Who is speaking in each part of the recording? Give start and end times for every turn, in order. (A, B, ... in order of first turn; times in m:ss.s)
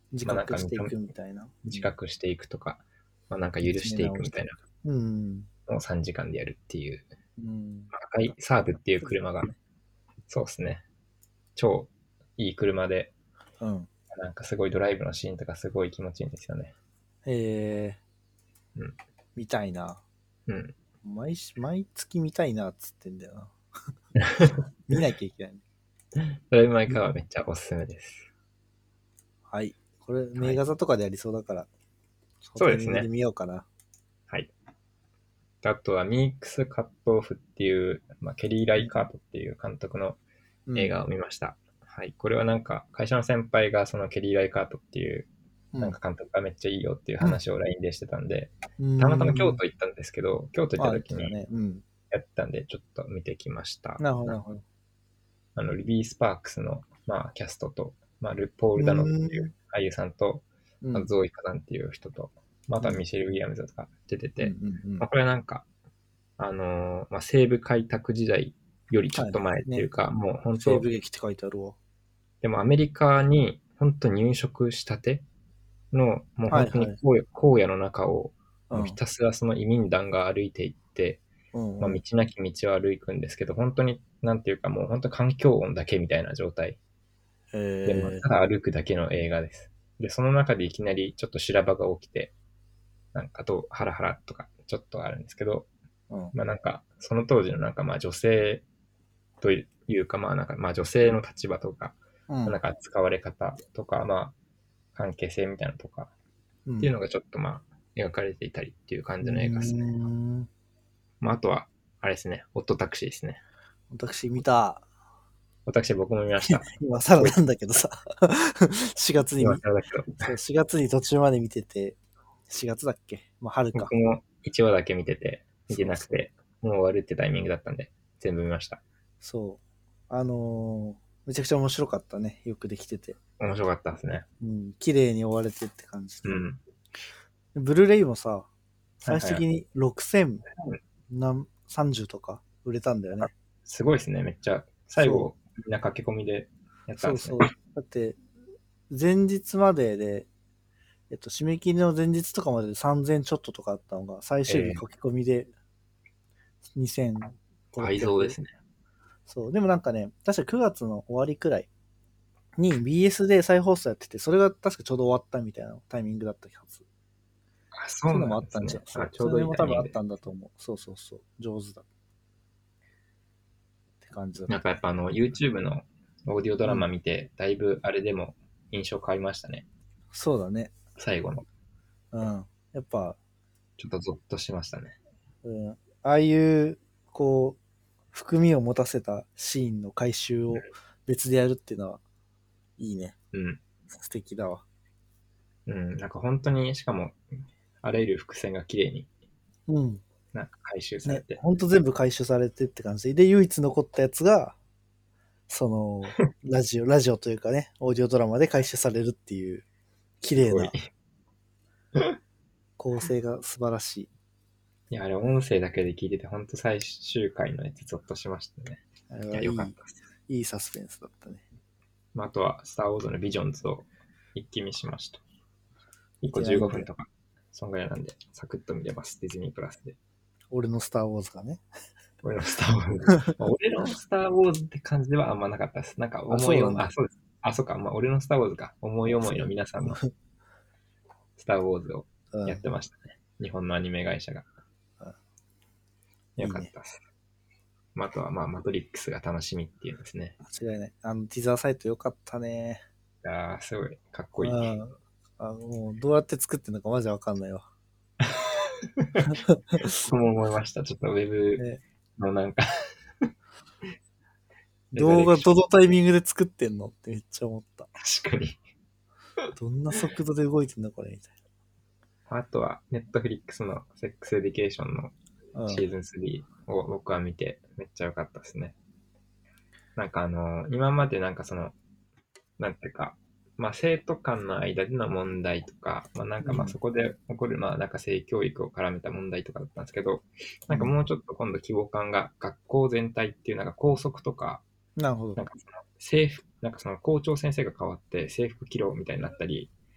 0:00.1-0:01.9 A
0:00.2-0:01.0 B
0:01.6-0:04.6 B
0:03.6-0:05.5 A
0:05.7-0:07.1 B
0:07.4-0:07.9 A
0:07.9-0:09.5 B
0:10.3-0:10.8 B
0:11.6-0:13.1 B
0:13.6-0:13.9 A
0:14.1-0:16.7 B
0:17.2-0:18.0 A
0:19.4-0:20.0 A
0:20.5-0:20.8 B
0:21.0-0:23.6 A
0:24.4-0:25.6 A
0:26.5-0:28.3 B
0:29.5-0:31.7 A
0:32.4-0:33.7 A
0:32.6-0:33.1 B
0:35.6-0:40.2 B
0:40.7-0:40.9 A
0:40.8-0:45.3 B
0:45.8-0:51.3 B
0:48.8-0:49.6 A
0:50.8-0:51.8 A
0:52.1-0:54.3 B
0:54.0-0:54.6 A
0:55.6-1:05.6 B
0:58.8-0:59.5 A
1:00.8-1:01.1 A
1:04.4-1:05.1 A
1:06.4-1:10.8 B
1:09.1-1:09.8 A
1:10.6-1:11.8 A
1:12.4-1:15.2 B
1:15.9-1:21.2 B
1:16.5-1:17.0 A
1:18.7-1:19.0 A
1:21.5-1:22.0 A
1:21.8-1:26.8 B
1:27.5-1:28.2 A
1:27.8-1:32.3 B
1:33.1-1:35.7 B
1:36.3-1:38.6 B
1:39.4-1:44.3 B
1:42.3-1:42.6 A
1:44.9-1:46.1 B
1:46.7-1:46.9 A
1:46.8-1:49.9 B
1:49.2-1:50.5 A
1:51.2-1:53.4 B
1:53.9-1:54.8 A
1:55.6-1:56.7 B
1:56.4-1:59.6 A
1:59.4-2:00.3 B
2:00.2-2:02.0 A
2:02.5-2:03.9 A
2:03.7-2:08.8 B
2:05.7-2:06.0 A
2:09.2-2:13.2 A
2:13.4-2:14.2 B
2:14.4-2:16.4 A
2:16.2-2:16.6 B
2:17.6-2:18.5 A
2:19.0-2:19.4 B
2:19.1-2:20.4 A
2:21.1-2:23.3 A
2:23.2-2:27.5 B
2:25.0-2:25.3 A
2:27.0-2:28.2 A
2:28.9-2:30.3 A
2:31.1-2:35.5 A
2:34.5-2:34.8 B
2:36.8-2:38.4 A
2:37.8-2:38.5 B
2:39.3-2:41.7 A
2:42.6-2:46.8 A
2:47.7-2:50.0 B
2:48.1-2:51.8 A
2:54.0-2:54.6 A
2:54.5-2:59.6 B
3:00.1-3:00.7 A
3:01.0-3:01.4 B
3:02.1-3:03.2 A
3:03.8-3:05.0 B
3:05.4-3:07.6 A
3:08.1-3:12.0 A
3:12.8-3:13.2 A
3:13.3-3:13.6 B
3:13.9-3:14.6 A
3:15.6-3:17.2 B
3:17.8-3:19.1 B
3:19.7-3:20.0 A
3:20.3-3:21.4 B
3:21.1-3:24.6 A
3:25.5-3:29.6 A
3:30.2-3:30.7 A
3:30.4-3:30.9 B
3:32.8-3:34.1 A
3:34.9-3:39.9 B
3:39.1-3:39.8 A
3:40.3-3:41.4 A
3:42.1-3:45.2 B
3:46.2-3:50.0 B
3:46.3-3:46.9 A
3:50.5-3:51.6 A
3:52.2-4:00.0 B
3:56.3-3:56.9 A
3:59.1-4:00.1 A
4:01.4-4:04.5 B
4:02.3-4:02.6 A
4:06.4-4:07.0 B
4:06.4-4:06.7 A
4:07.9-4:10.4 B
4:10.4-4:12.8 A
4:13.2-4:14.7 B
4:14.4-4:17.6 A
4:18.2-4:21.6 B
4:19.2-4:20.0 A
4:22.2-4:23.3 B
4:24.9-4:25.5 B
4:24.9-4:27.9 A
4:28.0-4:28.6 B
4:29.6-4:31.3 A
4:32.3-4:35.1 B
4:35.6-4:35.8 A
4:35.7-4:38.8 B
4:40.0-4:41.7 B
4:42.6-4:54.6 B
4:46.4-4:46.8 A
4:55.0-4:55.4 A
4:55.4-4:59.7 B